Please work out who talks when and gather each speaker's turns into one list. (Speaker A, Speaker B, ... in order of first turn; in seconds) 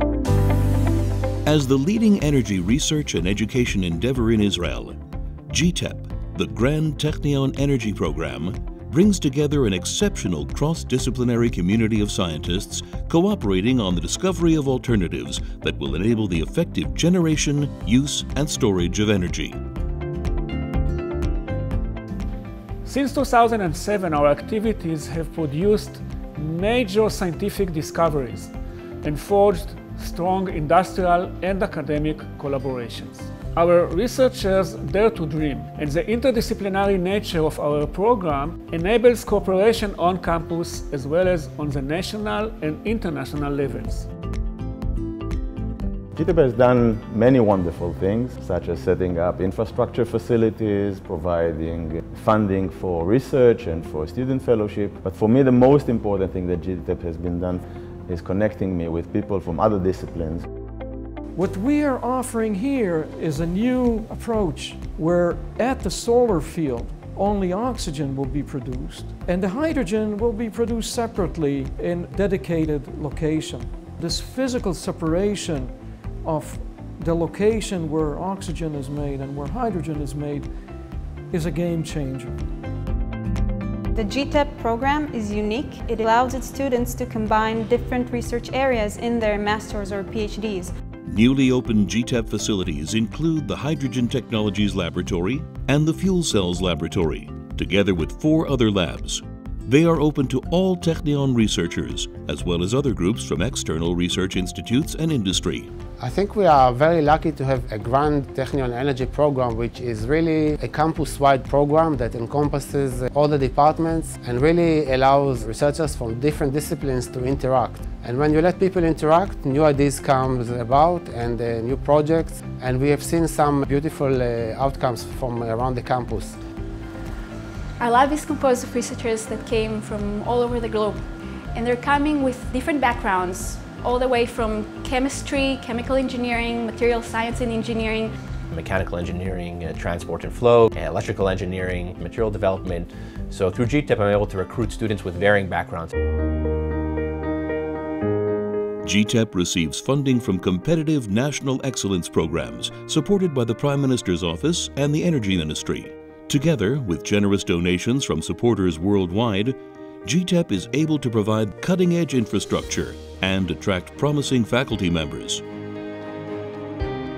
Speaker A: 1.4-19.6, 91.0-105.7, 148.8-165.4
Speaker B: 22.8-28.5, 29.0-44.1
Speaker C: 46.1-60.5
Speaker D: 61.3-80.5, 81.3-82.4
Speaker E: 84.0-90.7
Speaker F: 106.0-126.4
Speaker G: 127.8-131.0, 131.5-138.1
Speaker H: 138.5-145.9